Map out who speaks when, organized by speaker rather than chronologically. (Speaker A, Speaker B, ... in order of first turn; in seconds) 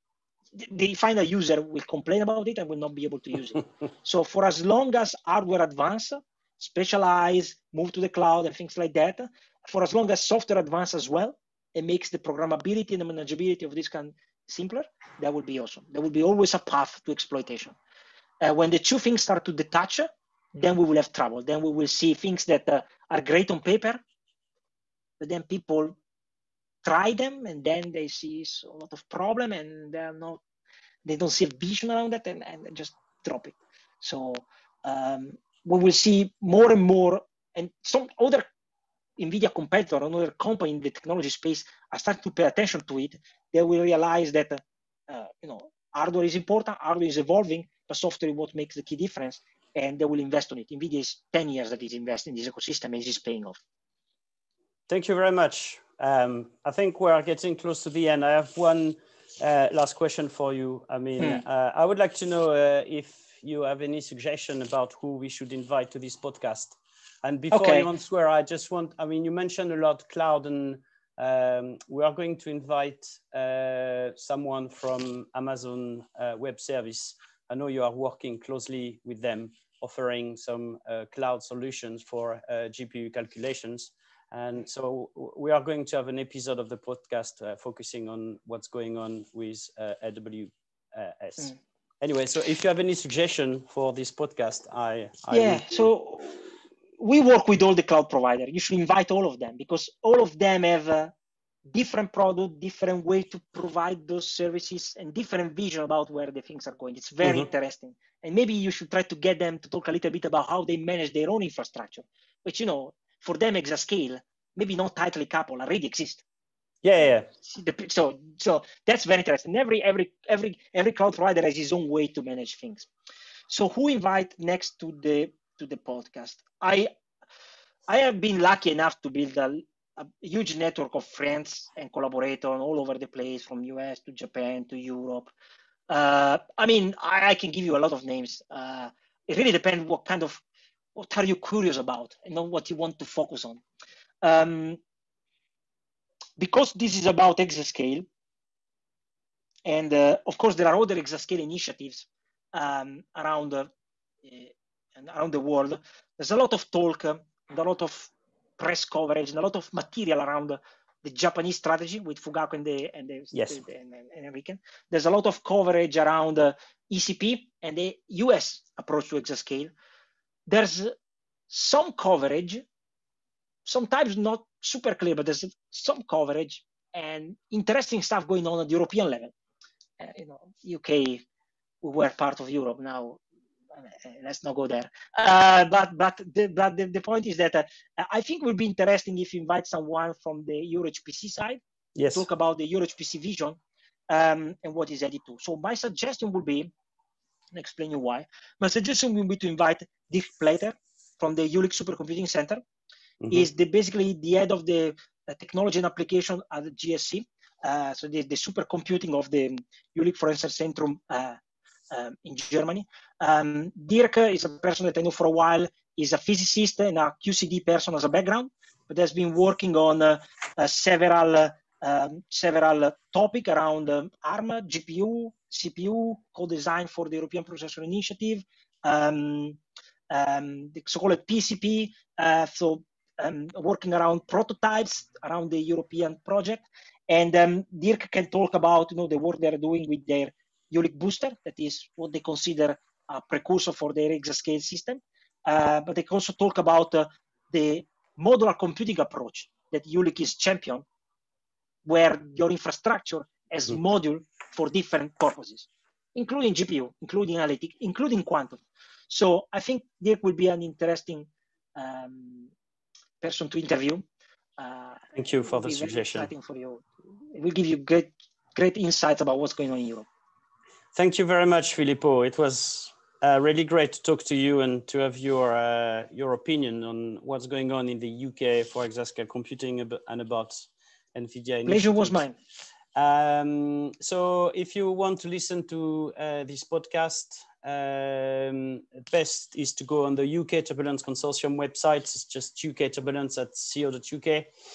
Speaker A: 0.5-17.8, 18.4-24.0, 25.2-26.0, 26.8-30.4, 31.0-38.5, 39.2-53.6, 67.5-67.9, 95.3-101.1, 101.7-116.2, 117.0-122.9, 123.5-126.9, 127.9-135.3, 135.9-140.4, 140.9-143.6, 144.2-144.8, 146.4-148.1, 149.6-153.7, 154.2-169.7, 170.5-171.0, 171.5-172.7, 173.7-179.3, 180.0-181.2, 181.8-183.2, 183.7-191.6, 192.1-196.7, 197.5-202.6, 203.3-250.9, 251.8-262.5, 263.2-264.0, 264.6-270.1, 281.7-282.4
Speaker B: 54.9-95.9, 116.8-117.3, 163.3-163.6, 192.0-192.3, 203.2-203.5, 265.1-266.3, 270.9-282.2, 282.9-294.5